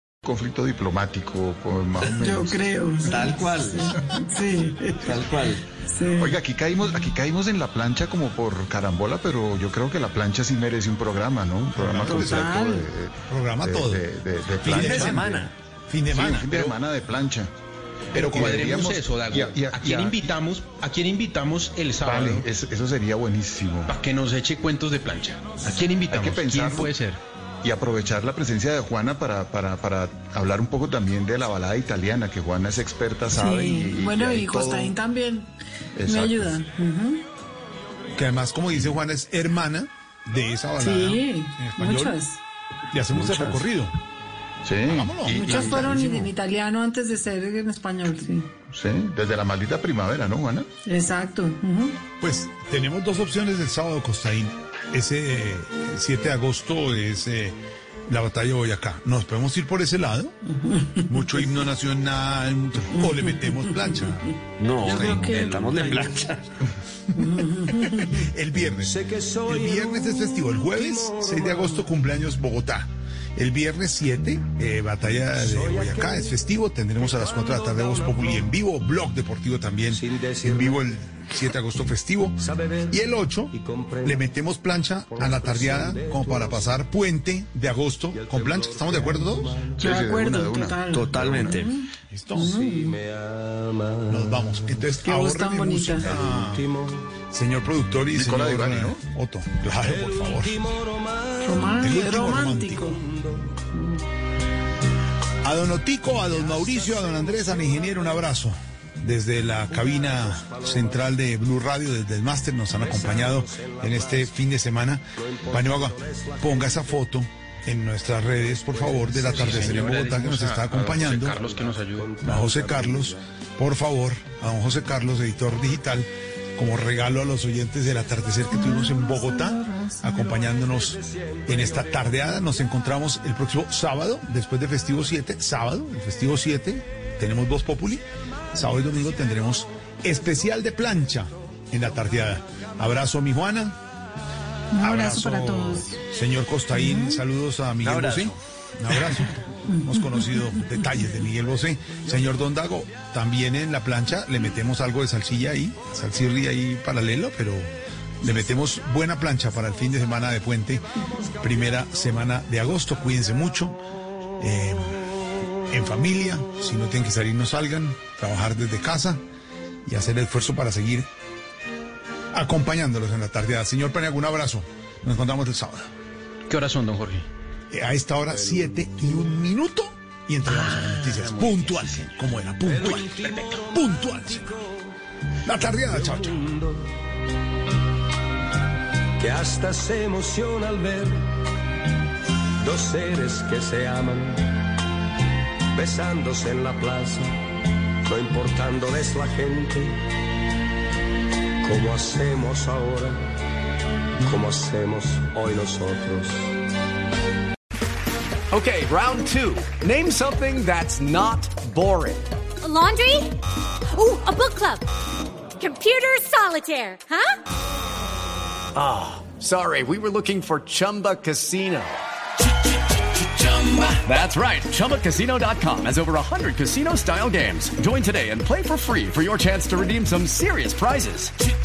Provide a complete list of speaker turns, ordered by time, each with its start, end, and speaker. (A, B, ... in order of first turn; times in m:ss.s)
0:00.2-0:02.6 A
0:02.0-0:06.4 B
0:03.2-0:03.8 C
0:03.5-0:03.9 D
0:05.3-0:05.5 D
0:06.2-0:15.3 A
0:11.7-0:12.5 E
0:12.0-0:12.9 B
0:13.3-0:14.0 E
0:14.6-0:15.3 E
0:14.7-0:15.2 D
0:15.9-0:16.8 E
0:16.1-0:17.5 A
0:18.1-0:20.3 A
0:18.2-0:22.5 F
0:18.2-0:18.7 E
0:22.0-0:23.9 A
0:23.9-0:27.2 F
0:25.6-0:26.9 A
0:27.6-0:34.9 A
0:33.3-0:35.5 B
0:36.0-0:36.6 A
0:36.0-0:37.2 B
0:38.1-0:42.2 E
0:40.8-0:42.4 B
0:42.9-0:43.9 E
0:43.2-0:43.6 D
0:44.6-0:46.3 A
0:44.9-0:45.8 E
0:45.3-0:48.5 B
0:48.7-0:50.7 A
0:50.8-0:52.0 B
0:52.2-0:57.6 E
0:58.1-1:00.4 E
1:01.0-1:04.3 E
1:03.0-1:03.7 B
1:04.6-1:06.4 D
1:04.8-1:06.3 B
1:05.3-1:06.2 C
1:07.2-1:08.2 B
1:07.2-1:29.6 E
1:08.8-1:11.8 C
1:15.3-1:16.4 C
1:17.0-1:18.5 C
1:19.9-1:20.9 C
1:22.4-1:24.2 C
1:25.1-1:26.8 C
1:28.1-1:29.9 C
1:29.8-1:33.0 B
1:29.8-1:31.5 A
1:30.9-1:31.7 D
1:32.1-1:32.6 E
1:32.4-1:34.9 C
1:34.1-1:36.6 E
1:35.0-1:36.1 B
1:35.9-1:37.1 C
1:37.3-1:40.6 E
1:38.1-1:39.0 A
1:39.8-1:43.5 C
1:41.4-1:43.0 B
1:41.8-1:43.0 E
1:43.6-1:44.0 B
1:45.4-2:01.4 E
1:46.1-1:48.3 C
1:49.5-1:51.3 C
1:52.7-1:54.4 C
1:55.2-1:57.0 C
1:58.2-2:00.2 C
1:59.4-2:02.1 F
2:01.2-2:03.2 C
2:02.2-2:23.8 E
2:08.5-2:10.4 B
2:10.4-2:12.4 C
2:24.7-2:25.9 B
2:24.8-2:43.8 E
2:26.7-2:27.2 B
2:27.8-2:28.3 D
2:29.7-2:30.7 B
2:44.4-2:45.0 E
2:45.7-2:49.2 E
2:49.8-2:51.1 E
2:52.3-2:55.9 E
2:56.5-2:57.2 F
2:57.7-3:04.5 E
2:58.3-2:59.4 C
3:02.6-3:04.9 C
3:05.4-3:06.5 E
3:05.6-3:07.0 C
3:09.2-3:11.3 C
3:12.6-3:14.6 C
3:15.7-3:17.4 C
3:18.0-3:20.0 C
3:21.6-3:23.3 C
3:24.2-3:26.5 C
3:28.5-3:32.2 D
3:32.6-3:33.4 G
3:33.9-3:34.9 G
3:35.6-3:37.4 G
3:38.7-3:42.0 D
3:43.5-3:51.3 D